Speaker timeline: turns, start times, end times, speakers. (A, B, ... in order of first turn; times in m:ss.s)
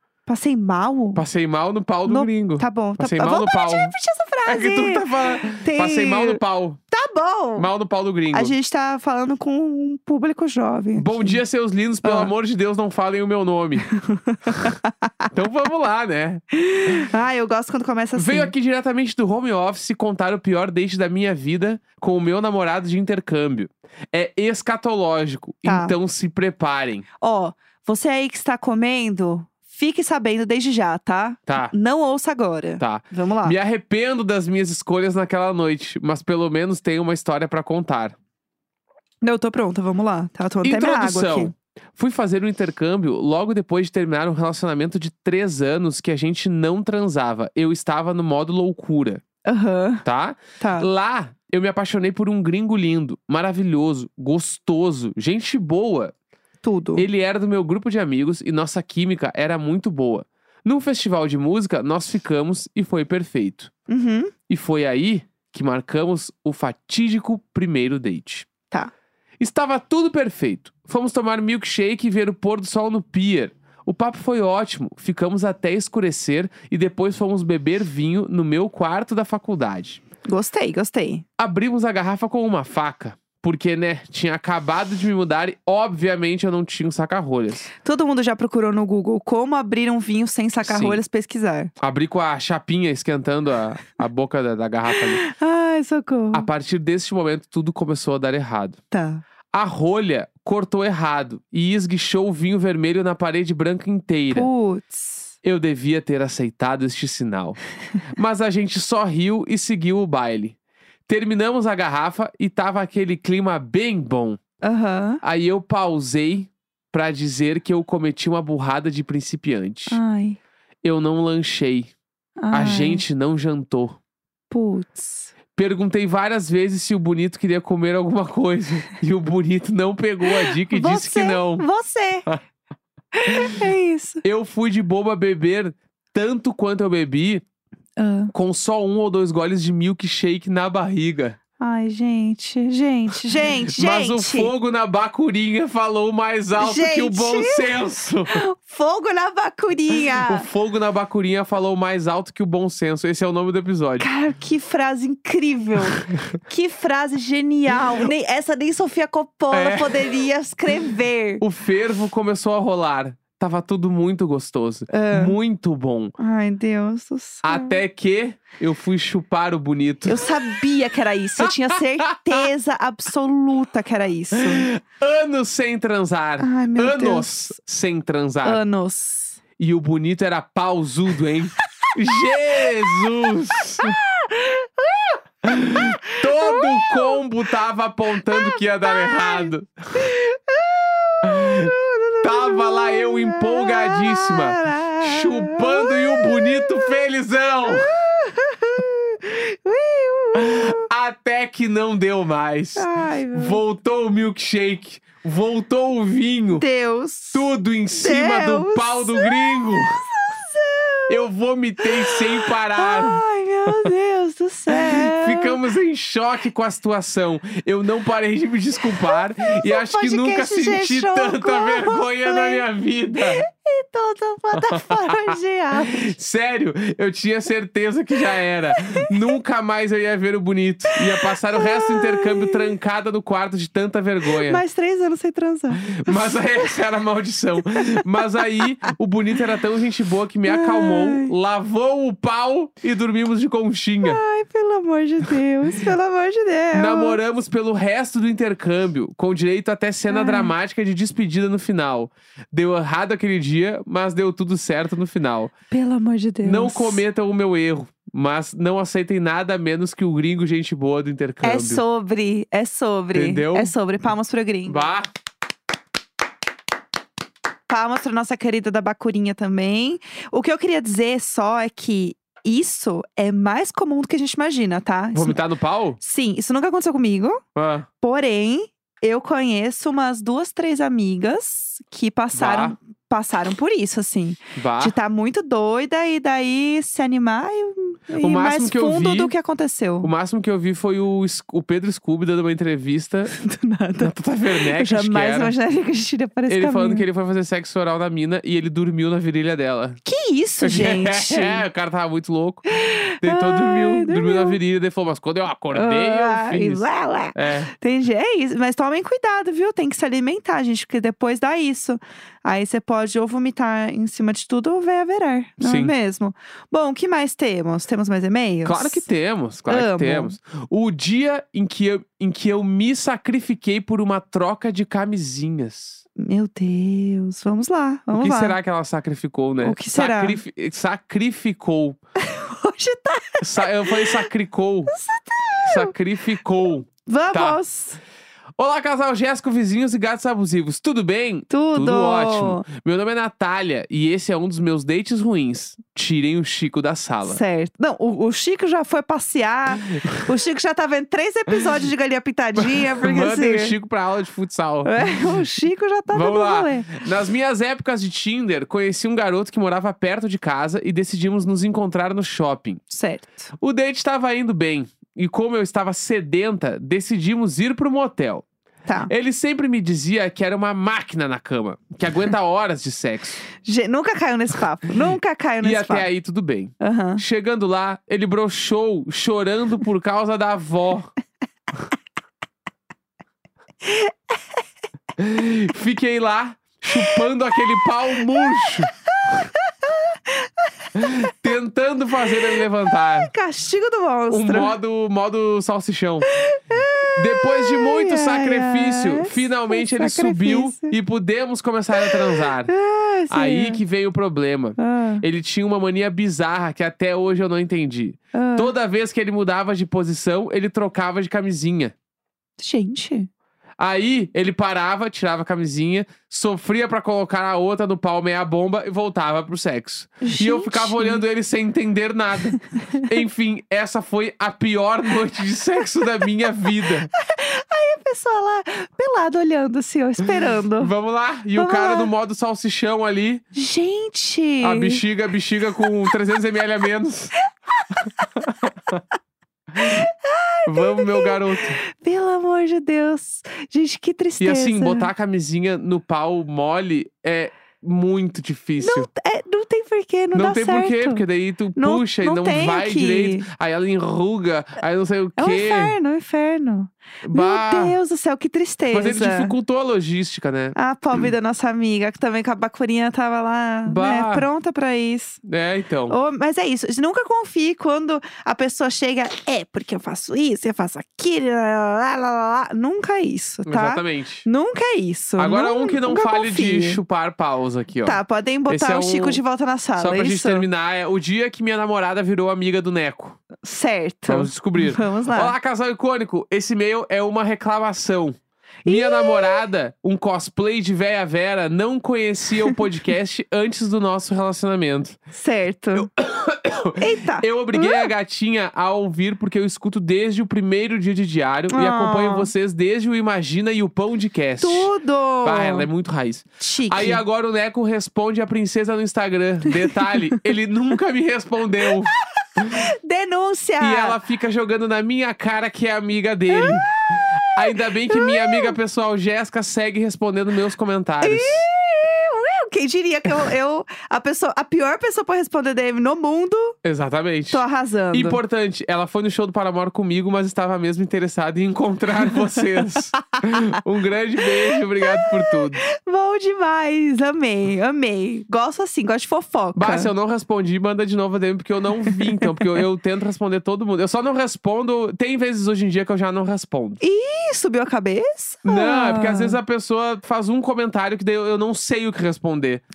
0:00.2-0:01.2 A
0:01.1-0:03.9 B
0:02.0-0:07.7 A
0:04.4-0:06.8 B
0:07.6-0:08.5 B
0:08.3-0:11.4 A
0:10.9-0:13.9 B
0:12.0-0:12.3 A
0:13.9-0:15.3 A
0:15.3-0:17.0 B
0:16.5-0:18.5 A
0:18.2-0:27.0 B
0:25.6-0:25.9 A
0:27.2-0:33.6 A
0:31.5-0:31.7 B
0:32.8-0:38.2 B
0:39.2-0:41.5 A
0:40.6-0:49.2 B
0:49.4-0:50.0 A
0:50.0-0:56.1 B
0:50.6-0:50.9 A
0:56.6-0:57.0 A
0:57.0-1:03.7 B
1:03.9-1:04.3 A
1:04.5-1:08.5 B
1:09.4-1:20.0 B
1:20.2-1:21.2 A
1:21.4-1:27.7 B
1:27.8-1:31.7 A
1:30.6-1:31.0 B
1:31.8-1:35.2 B
1:34.9-1:36.5 A
1:36.3-1:38.8 B
1:38.9-1:39.2 A
1:39.5-1:44.5 B
1:44.3-1:45.3 A
1:45.4-1:50.6 B
1:51.1-1:54.4 B
1:54.6-1:55.2 A
1:55.2-2:00.0 B
1:59.9-2:00.4 A
2:00.8-2:01.9 B
2:02.4-2:03.0 A
2:02.5-2:04.0 B
2:04.5-2:05.3 A
2:05.5-2:11.6 B
2:10.2-2:12.3 A
2:13.1-2:14.2 A
2:14.2-2:17.4 B
2:18.0-2:18.3 A
2:18.3-2:21.4 B
2:21.6-2:24.5 A
2:23.7-2:28.4 B
2:26.6-2:30.4 A
2:30.1-2:34.1 B
2:34.0-2:41.4 A
2:35.8-2:36.1 B
2:39.5-2:40.2 B
2:41.4-2:46.1 B
2:44.9-2:45.4 A
2:46.2-2:47.8 A
2:47.4-2:50.3 B
2:50.1-2:54.7 A
2:51.4-2:52.4 B
2:54.3-2:58.6 B
2:56.4-2:57.6 A
2:58.4-2:59.4 A
2:59.6-3:04.0 B
3:01.8-3:07.2 A
3:05.4-3:10.0 B
3:08.3-3:17.0 A
3:11.2-3:17.9 B
3:17.6-3:20.9 A
3:20.3-3:26.6 B
3:22.8-3:23.6 A
3:26.6-3:31.2 A
3:27.3-3:30.0 B
3:31.1-3:33.9 B
3:31.8-3:35.6 A
3:34.7-3:43.4 B
3:39.1-3:42.6 A
3:43.2-3:46.1 A
3:44.6-3:54.6 B
3:48.7-3:49.1 A
3:51.2-3:52.7 A
3:54.4-3:56.8 A
3:55.8-4:04.2 B
3:57.6-3:58.6 A
4:00.4-4:01.3 A
4:04.0-4:07.2 A
4:06.7-4:15.5 B
4:10.1-4:10.5 A
4:15.7-4:17.0 A
4:16.4-4:21.8 B
4:21.4-4:24.9 A
4:23.1-4:23.7 B
4:24.7-4:25.1 B
4:27.7-4:35.4 A
4:35.1-4:36.0 B
4:36.0-4:37.4 A
4:37.6-4:37.9 B
4:38.0-4:50.1 A
4:42.3-4:42.7 B
4:44.6-4:44.9 B
4:48.2-4:49.3 B
4:50.0-4:53.4 B
4:53.3-4:57.0 A
4:54.0-4:55.5 B
4:56.5-5:00.0 B
5:00.0-5:01.6 A
5:00.6-5:02.6 B
5:02.7-5:04.6 A
5:03.2-5:07.7 B
5:05.7-5:19.1 A
5:15.6-5:15.9 B
5:18.6-5:26.0 B
5:19.7-5:20.4 A
5:26.2-5:28.6 A
5:28.1-5:32.0 B
5:29.6-5:30.4 A
5:32.2-5:34.3 A
5:33.4-5:34.9 B
5:34.9-5:35.9 A
5:35.6-5:37.6 B
5:37.0-5:38.0 A
5:38.6-5:47.4 B
5:41.5-5:42.6 A
5:47.2-5:53.8 A
5:50.0-5:50.3 B
5:52.6-5:54.9 B
5:54.8-5:57.1 A
5:56.1-6:02.8 B
6:02.9-6:03.5 A
6:03.6-6:08.4 B
6:09.1-6:13.4 B
6:13.6-6:16.1 A
6:15.6-6:21.1 B
6:16.8-6:17.2 A
6:23.8-6:24.1 A
6:25.2-6:28.9 B
6:26.9-6:27.6 A
6:28.3-6:31.2 A
6:30.9-6:33.3 B
6:33.0-6:34.8 A
6:34.3-6:36.4 B
6:36.3-6:41.0 A
6:37.1-6:42.7 B
6:41.9-6:43.8 A
6:43.3-6:51.9 B
6:44.8-6:45.2 A
6:48.3-6:48.7 A
6:52.6-6:53.3 A
6:53.8-7:07.1 B
7:00.2-7:01.2 A
7:07.1-7:10.9 A
7:10.8-7:13.4 B
7:11.5-7:12.1 A
7:13.5-7:15.0 A
7:14.6-7:17.3 B
7:17.8-7:18.3 A
7:18.4-7:19.0 B
7:19.8-7:25.1 A
7:20.6-7:21.8 B
7:24.4-7:29.1 B
7:28.8-7:31.2 A
7:30.3-7:36.0 B
7:31.8-7:33.5 A
7:35.4-7:39.5 A
7:37.2-7:38.0 B
7:38.9-7:40.8 B
7:40.8-7:45.4 A
7:43.8-7:44.5 B
7:45.4-7:46.2 B
7:46.1-7:57.0 A
7:53.6-7:54.4 B
7:55.4-7:59.4 B
7:58.0-8:00.7 A
8:00.0-8:03.4 B
8:03.6-8:05.5 A
8:04.3-8:15.2 B
8:08.8-8:09.6 A
8:15.3-8:16.1 A
8:15.9-8:24.9 B
8:17.0-8:18.1 A
8:21.7-8:22.5 A
8:24.6-8:25.9 A
8:25.4-8:32.8 B
8:26.6-8:27.2 A
8:29.8-8:30.4 A
8:32.1-8:34.2 A
8:33.8-8:41.6 B
8:36.5-8:38.8 A
8:41.2-8:46.8 A
8:46.8-8:55.8 B
8:47.5-8:48.4 A
8:53.2-8:53.7 A
8:54.6-9:00.1 A
8:59.8-9:07.0 B
9:02.1-9:02.8 A
9:07.0-9:09.6 A
9:08.6-9:12.8 B